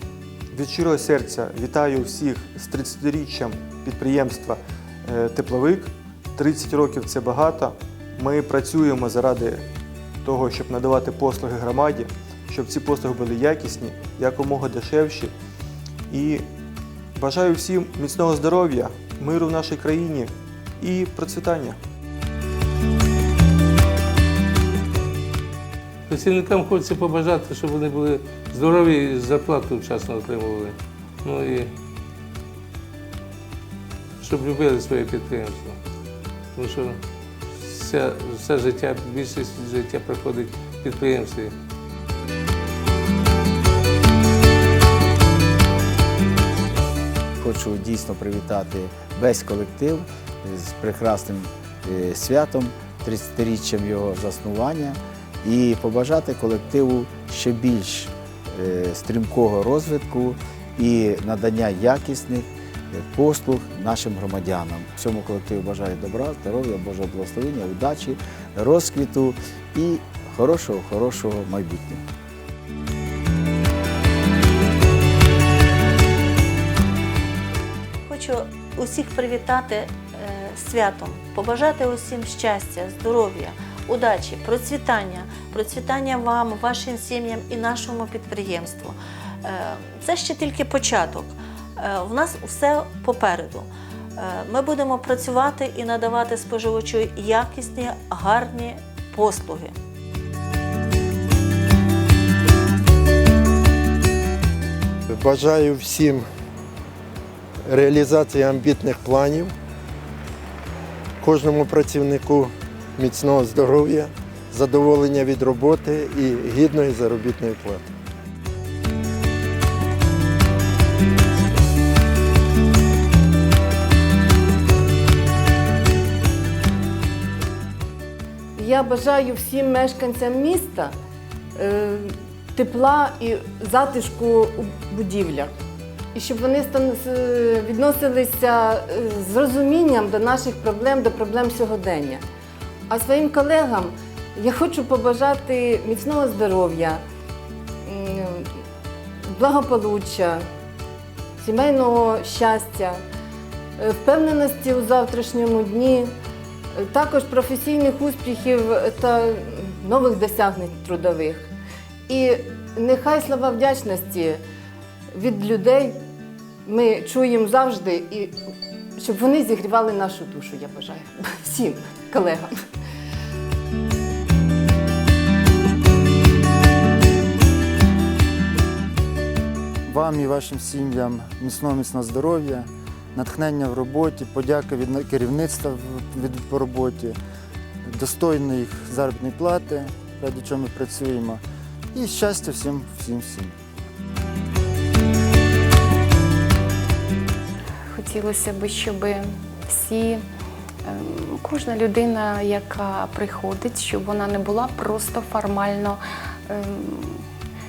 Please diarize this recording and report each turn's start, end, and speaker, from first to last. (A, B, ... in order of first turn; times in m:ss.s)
0:00.5-0:09.6 A
0:10.2-0:15.3 A
0:16.1-0:16.4 A
0:17.2-0:21.8 A
0:26.1-0:31.7 B
0:34.2-0:35.8 B
0:36.6-0:37.0 B
0:37.5-0:41.5 B
0:47.4-1:12.0 C
1:18.1-1:39.7 D
1:45.1-1:46.2 E
1:47.7-1:49.5 E
1:51.2-1:57.9 E
2:08.6-2:10.9 F
2:11.6-2:15.5 F
2:16.1-2:22.2 F
2:22.9-2:27.0 F
2:27.8-2:28.4 F
2:29.4-2:30.4 F
2:31.4-2:33.0 F
2:33.8-2:36.1 F
2:36.9-2:41.4 F
2:42.1-2:44.4 F
2:45.1-2:45.9 F
2:46.6-2:48.3 F
2:49.0-2:52.5 F
2:59.9-3:07.2 G
3:07.8-3:11.4 G
3:11.9-3:13.5 G
3:17.9-3:20.2 H
3:20.8-3:27.2 H